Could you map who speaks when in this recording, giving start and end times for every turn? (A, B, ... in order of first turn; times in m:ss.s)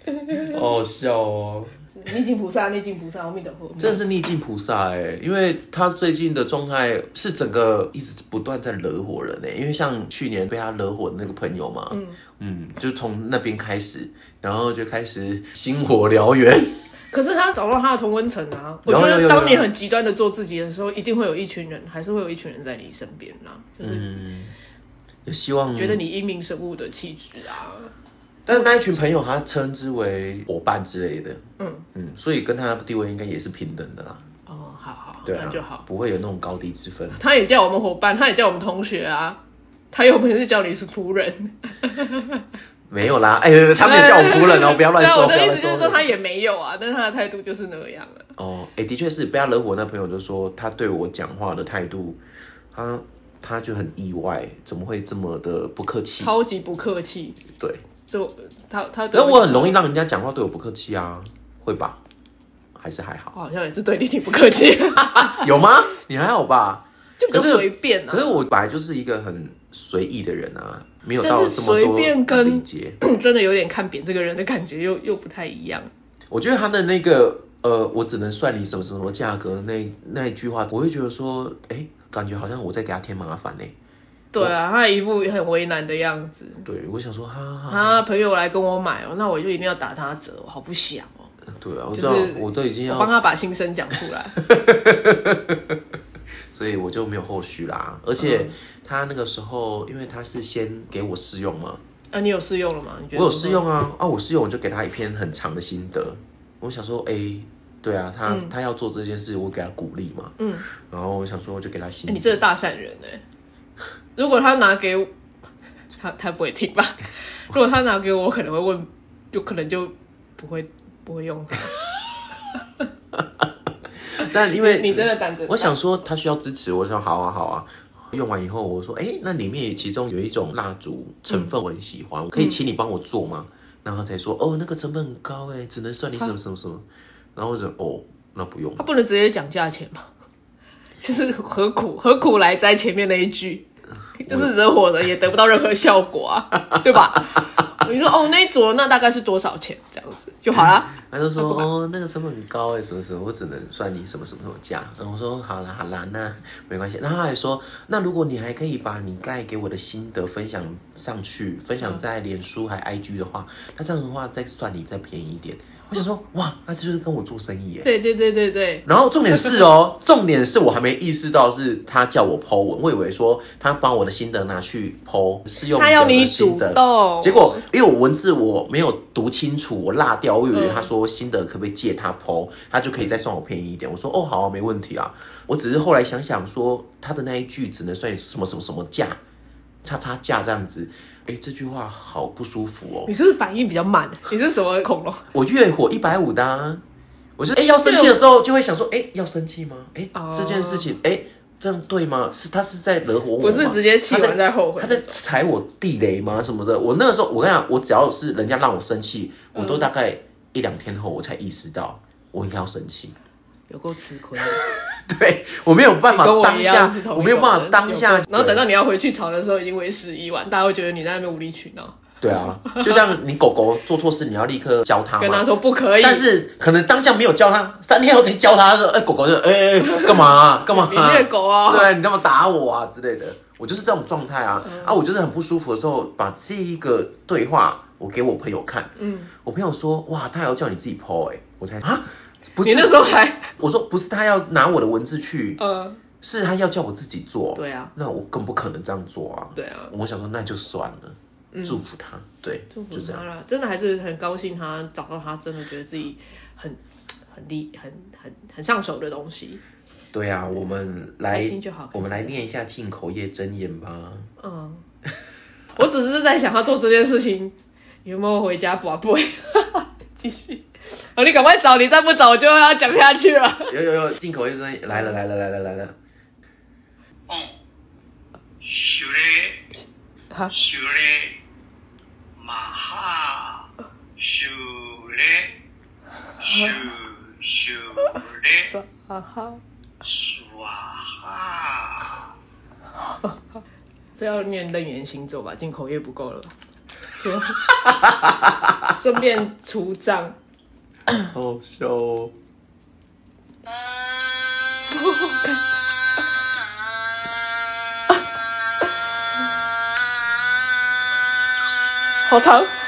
0:00.3-0:01.7 A
0:01.9-0:04.0 B
0:03.8-0:16.8 A
0:11.9-0:12.2 B
0:17.1-0:24.2 B
0:18.9-0:19.7 A
0:23.8-0:24.5 A
0:25.3-0:26.0 A
0:25.8-0:27.9 B
0:28.5-0:31.4 A
0:28.5-0:29.0 B
0:31.6-0:31.9 B
0:32.0-0:34.2 A
0:34.5-0:35.8 B
0:35.2-0:37.2 A
0:37.1-0:39.4 B
0:39.9-0:42.4 B
0:42.9-0:46.1 A
0:43.8-0:48.3 B
0:48.4-0:52.2 A
0:52.7-0:56.3 A
0:56.2-0:57.4 B
0:57.5-0:57.8 A
0:58.0-0:59.8 B
0:59.1-1:02.0 A
1:02.8-1:03.3 A
1:03.3-1:05.5 B
1:05.0-1:13.0 A
1:07.2-1:08.4 B
1:11.2-1:15.9 B
1:16.3-1:23.7 A
1:24.3-1:26.7 B
1:26.6-1:28.0 A
1:27.7-1:31.3 B
1:31.5-1:33.1 A
1:32.0-1:34.4 B
1:34.4-1:35.8 A
1:36.5-1:41.8 A
1:38.2-1:38.5 B
1:42.1-1:43.6 B
1:43.1-1:52.4 A
1:48.3-1:48.5 B
1:50.4-1:50.7 B
1:52.1-1:53.2 B
1:54.2-1:55.1 B
1:56.0-2:01.8 B
2:03.2-2:03.4 A
2:04.1-2:18.8 A
2:04.2-2:05.8 B
2:18.8-2:20.1 B
2:21.0-2:23.7 B
2:24.2-2:31.7 B
2:24.3-2:24.5 A
2:30.6-2:47.9 A
2:47.8-2:48.8 B
2:48.8-3:09.2 A
2:55.7-2:57.7 B
3:00.5-3:00.9 B
3:09.8-3:13.1 A
3:13.1-3:15.3 B
3:15.3-3:16.8 A
3:17.4-3:33.2 A
3:17.8-3:18.2 B
3:20.2-3:20.9 B
3:23.4-3:25.2 B
3:29.6-3:29.9 B
3:33.7-3:34.6 B
3:34.5-3:38.6 A
3:36.1-3:42.1 B
3:42.2-3:45.5 A
3:42.6-3:43.0 B
3:45.2-3:46.2 B
3:46.0-4:03.1 A
3:49.9-3:51.9 B
3:54.6-3:54.9 B
3:59.0-3:59.3 B
4:02.6-4:03.5 B
4:03.6-4:05.6 A
4:05.6-4:06.0 B
4:06.2-4:13.2 A
4:07.6-4:07.9 B
4:09.6-4:09.9 B
4:11.5-4:11.8 B
4:12.7-4:19.6 B
4:20.1-4:24.3 A
4:21.3-4:22.4 B
4:24.4-4:24.8 B
4:25.8-4:33.7 B
4:33.7-4:36.0 A
4:37.3-4:37.6 C
4:38.6-4:39.7 C
4:40.5-4:41.4 C
4:42.4-4:45.6 C
4:46.4-4:48.7 C
4:48.7-4:49.6 B
4:50.0-4:52.3 C
4:54.2-4:56.5 B
4:57.2-4:57.6 B
4:57.7-4:58.8 A
4:58.8-5:00.4 B
5:01.2-5:02.3 A
5:04.9-5:05.6 B
5:12.3-5:12.7 B